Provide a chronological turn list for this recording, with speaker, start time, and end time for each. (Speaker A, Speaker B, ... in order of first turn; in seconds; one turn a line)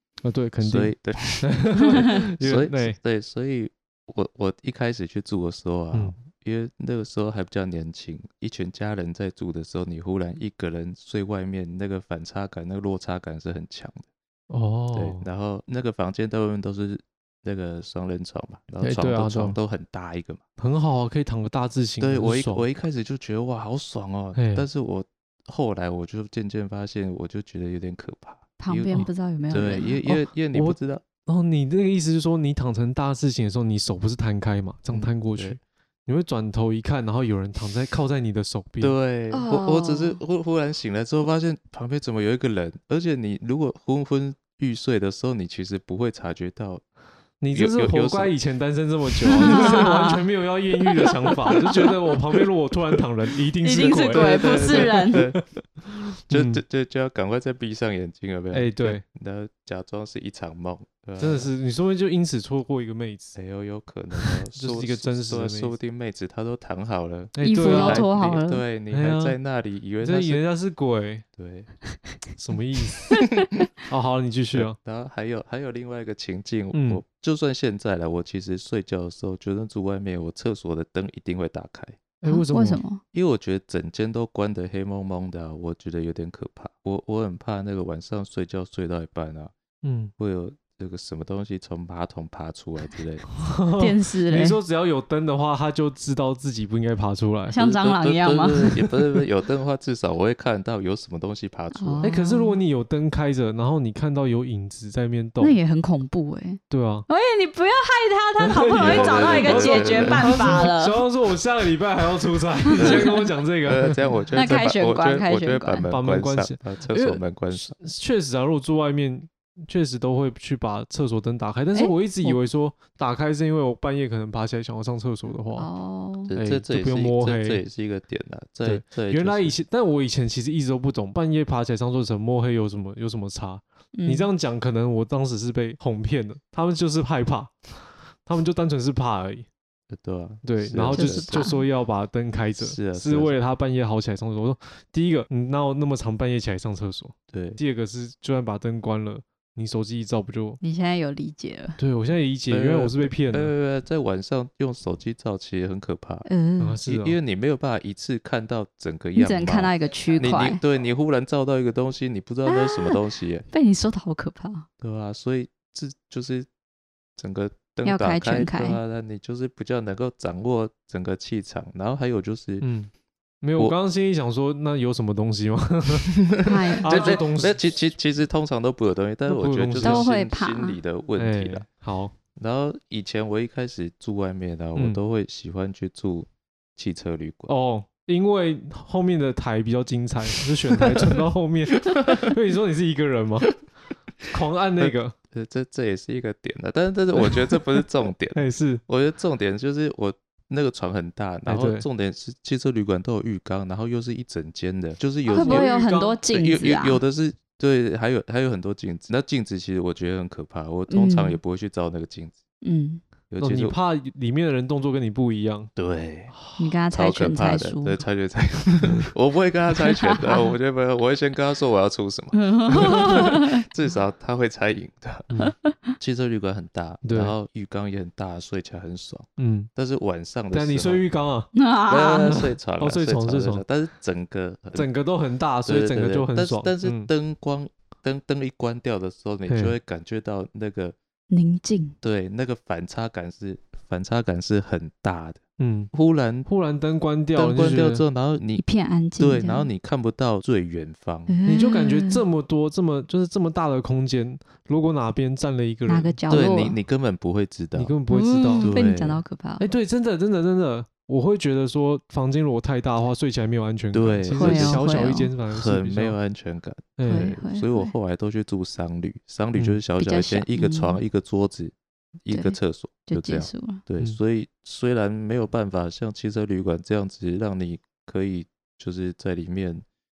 Speaker A: 0.2-3.0
Speaker B: 0.6-14.1
Speaker A: 14.5-15.2
Speaker B: 14.9-20.4
Speaker A: 18.8-19.6
Speaker A: 20.6-22.7
Speaker B: 22.0-31.0
Speaker A: 24.4-24.7
Speaker C: 28.6-30.0
Speaker A: 30.1-39.0
Speaker B: 34.9-35.6
Speaker B: 38.8-46.8
Speaker C: 39.3-40.2
Speaker A: 47.4-56.6
Speaker B: 47.5-48.3
Speaker C: 49.4-50.2
Speaker B: 49.4-49.6
Speaker C: 50.8-52.0
Speaker C: 53.6-55.2
Speaker B: 54.1-55.5
Speaker B: 56.3-61.5
Speaker A: 58.5-59.0
Speaker A: 61.2-63.4
Speaker B: 63.4-70.4
Speaker A: 64.2-65.8
Speaker A: 67.3-68.1
Speaker C: 67.4-68.6
Speaker A: 68.9-69.4
Speaker A: 70.0-71.2
Speaker B: 71.4-71.7
Speaker A: 72.4-73.2
Speaker A: 73.9-74.8
Speaker B: 74.5-82.0
Speaker A: 76.7-77.0
Speaker A: 82.2-82.8
Speaker C: 82.2-83.0
Speaker B: 83.1-89.5
Speaker A: 89.8-90.1
Speaker B: 90.2-93.3
Speaker A: 93.4-97.6
Speaker C: 93.8-94.6
Speaker C: 97.5-99.0
Speaker B: 97.6-102.1
Speaker C: 101.8-102.6
Speaker A: 102.0-105.6
Speaker C: 105.4-111.0
Speaker A: 106.7-107.1
Speaker A: 108.4-114.2
Speaker B: 108.8-110.7
Speaker C: 112.6-113.3
Speaker B: 112.8-117.8
Speaker C: 114.3-115.9
Speaker A: 115.9-125.7
Speaker C: 121.7-122.4
Speaker C: 125.6-126.3
Speaker B: 126.3-129.6
Speaker A: 126.3-127.6
Speaker A: 128.6-139.5
Speaker C: 133.9-134.3
Speaker B: 139.9-141.5
Speaker A: 140.4-150.6
Speaker C: 140.9-141.6
Speaker B: 142.6-143.3
Speaker B: 147.3-147.6
Speaker C: 150.6-151.8
Speaker A: 151.8-153.5
Speaker B: 152.5-156.3
Speaker C: 156.2-156.8
Speaker A: 156.6-157.2
Speaker B: 156.8-163.5
Speaker C: 159.2-160.6
Speaker C: 162.5-164.7
Speaker B: 164.8-166.5
Speaker B: 167.2-172.7
Speaker C: 167.8-168.8
Speaker A: 172.6-172.9
Speaker A: 173.4-176.1
Speaker B: 176.2-181.7
Speaker C: 176.4-177.2
Speaker A: 176.8-177.8
Speaker A: 179.3-180.1
Speaker C: 179.8-180.8
Speaker A: 181.2-182.1
Speaker B: 182.3-187.5
Speaker A: 184.8-185.0
Speaker A: 187.5-193.6
Speaker B: 191.9-192.3
Speaker A: 194.3-195.1
Speaker B: 194.8-205.7
Speaker A: 198.3-198.8
Speaker A: 201.5-201.9
Speaker A: 205.3-206.2
Speaker C: 205.3-207.0
Speaker B: 206.3-212.4
Speaker C: 210.9-211.4
Speaker C: 212.6-213.0
Speaker B: 213.3-213.8
Speaker A: 213.4-215.7
Speaker B: 215.8-216.3
Speaker A: 216.3-216.8
Speaker C: 216.6-218.0
Speaker B: 216.9-225.3
Speaker C: 219.9-220.5
Speaker C: 222.3-223.6
Speaker A: 222.8-223.2
Speaker C: 225.4-225.8
Speaker B: 226.0-231.0
Speaker A: 227.0-227.3
Speaker A: 229.4-229.7
Speaker A: 230.5-231.5
Speaker C: 231.6-232.5
Speaker B: 231.9-234.9
Speaker A: 232.2-233.6
Speaker A: 234.8-237.1
Speaker B: 235.6-241.0
Speaker A: 239.5-239.8
Speaker C: 241.3-242.0
Speaker B: 242.0-245.4
Speaker A: 245.6-245.9
Speaker B: 245.9-246.5
Speaker A: 246.5-248.1
Speaker B: 247.3-248.6
Speaker C: 248.6-249.7
Speaker B: 249.2-251.4
Speaker C: 251.3-252.2
Speaker A: 251.5-256.2
Speaker C: 255.9-256.8
Speaker B: 256.3-257.9
Speaker A: 257.8-258.8
Speaker C: 258.1-259.7
Speaker B: 258.6-259.2
Speaker A: 259.6-266.1
Speaker B: 263.9-264.9
Speaker C: 264.4-265.3
Speaker B: 265.5-279.9
Speaker A: 267.0-267.4
Speaker C: 267.1-267.9
Speaker A: 269.6-269.8
Speaker C: 270.0-271.0
Speaker C: 272.3-273.8